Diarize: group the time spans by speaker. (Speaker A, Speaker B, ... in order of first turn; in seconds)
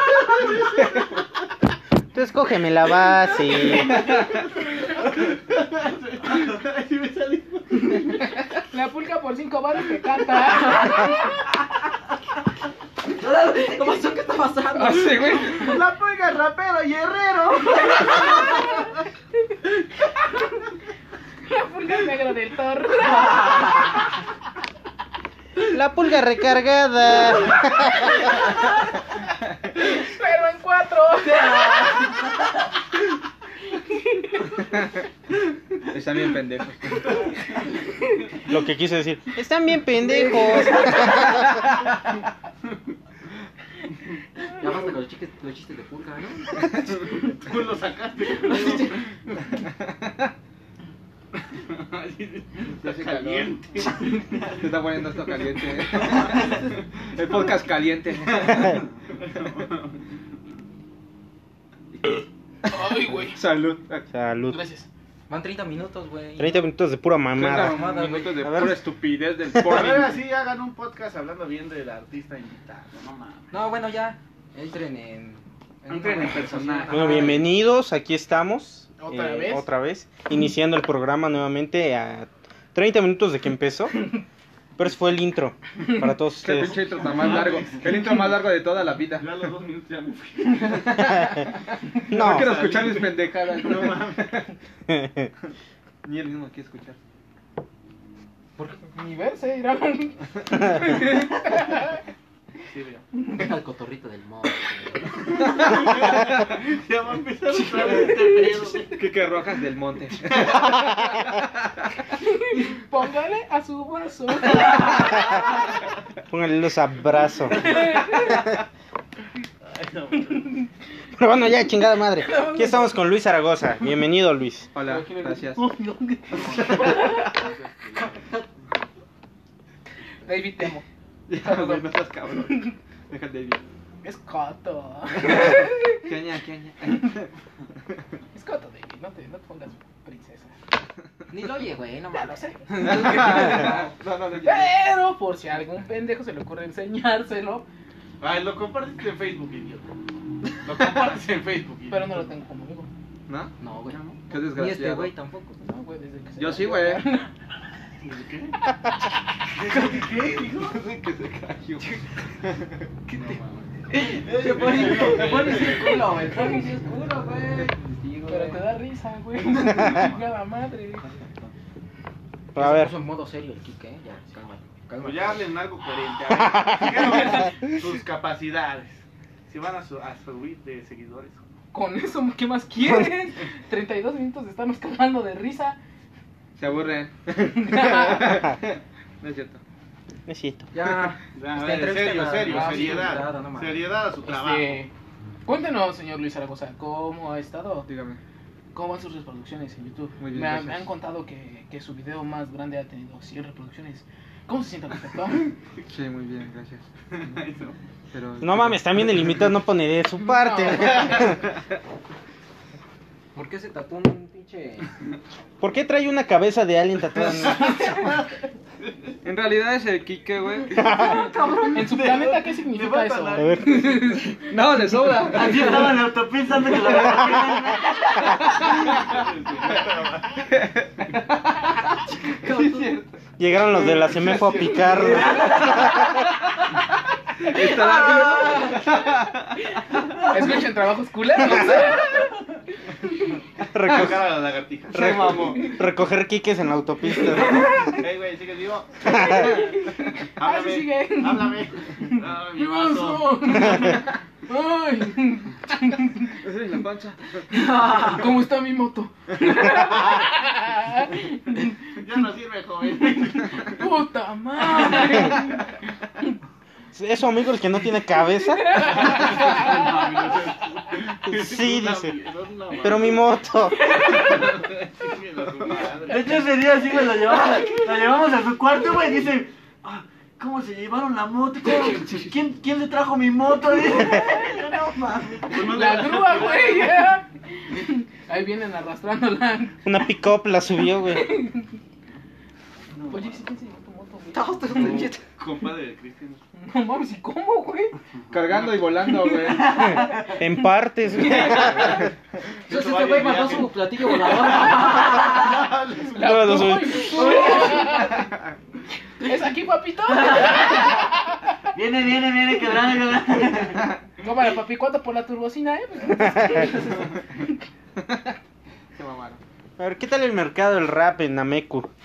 Speaker A: 2.1-4.1, 25.6-28.2, 38.5-41.5, 64.1-64.6, 66.4-67.8, 68.4-68.8, 76.9-84.0, 84.8-86.8, 92.1-92.6, 94.9-95.3, 116.3-117.9, 121.2-124.7, 172.5-172.9, 182.8-183.2, 190.3-190.7, 208.4-211.4, 215.6-217.9, 221.0-221.3, 223.3-224.2, 233.4-236.1, 243.7-244.2, 244.9-247.7, 266.9-269.0, 271.2-272.2, 272.8-273.9, 289.8-291.3, 300.3-302.0, 306.2-307.2, 319.8-321.9
Speaker B: 3.9-4.3, 14.7-15.7, 35.9-37.1, 52.8-53.6, 54.5-58.8, 62.0-64.1, 67.3-70.2, 75.8-77.2, 86.4-89.3, 90.6-94.5, 96.0-97.0, 108.9-110.9, 124.7-125.7, 126.5-127.1, 131.3-133.6, 135.2-137.3, 142.8-144.7, 153.3-153.5, 154.3-155.1, 156.4-157.1, 160.6-162.7, 186.6-189.6, 197.8-198.2, 200.2-200.9, 205.8-207.4, 208.1-209.2, 219.2-221.0, 224.4-226.1, 227.0-227.7, 228.7-229.2, 230.5-233.2, 233.7-234.6, 235.4-236.1, 237.4-239.7, 244.9-245.7, 256.4-257.4, 298.3-299.9, 318.9-319.4
Speaker C: 4.6-8.2, 15.4-18.6, 47.4-49.0, 51.6-54.5, 59.3-59.8, 69.5-73.6, 75.9-76.8, 87.0-87.8, 89.2-91.1, 92.3-94.4, 102.7-103.0, 105.5-109.0, 119.7-120.5, 126.3-128.2, 148.2-149.9, 150.6-152.3, 158.0-158.6, 159.7-160.8, 163.1-165.7, 169.8-170.2, 175.0-181.5, 191.3-194.8, 207.1-207.8, 221.7-224.0, 228.8-230.5, 234.2-235.0, 243.8-245.3, 247.8-249.7, 250.4-253.8, 261.9-263.8, 268.9-273.3, 274.1-276.4, 285.5-287.0, 294.7-296.4, 298.5-298.9, 302.6-306.6
Speaker D: 8.6-11.5, 17.9-18.6, 21.4-24.1, 29.7-32.1, 33.9-34.4, 62.7-63.4, 64.5-64.9, 79.0-79.7, 98.8-102.0, 112.2-115.4, 117.6-118.3, 122.3-122.8, 124.8-125.5, 126.6-127.3, 130.2-131.9, 132.5-132.7, 134.0-136.0, 138.3-140.5, 142.1-143.8, 144.4-147.6, 151.9-152.9, 155.6-157.3, 168.3-171.1, 181.7-185.8, 187.6-188.4, 192.4-193.2, 194.2-194.9, 195.4-197.9, 198.7-205.5, 210.3-211.4, 220.8-224.5, 238.0-238.7, 239.8-242.4, 247.2-248.0, 249.1-256.3, 257.5-261.7, 263.6-265.7, 268.6-270.0, 273.8-274.6, 285.6-290.1, 290.9-291.8, 293.1-295.1, 296.6-298.0, 301.2-301.9, 306.1-308.2, 309.2-311.5, 314.2-317.5
Speaker E: 13.1-15.5, 40.7-40.9, 44.6-46.7, 48.5-48.8, 65.3-66.7, 67.6-68.5, 73.5-75.4, 76.1-77.4, 103.3-105.2, 125.7-126.2, 128.2-128.4, 141.3-143.9, 153.6-155.6, 163.9-168.7, 172.6-175.5, 190.7-193.9, 213.3-214.9, 221.2-221.8, 232.1-233.0, 235.4-235.8, 238.2-238.7, 294.3-295.2, 302.7-305.7, 307.1-308.0
Speaker F: 225.2-228.6, 276.1-285.8, 299.5-300.4, 311.7-313.9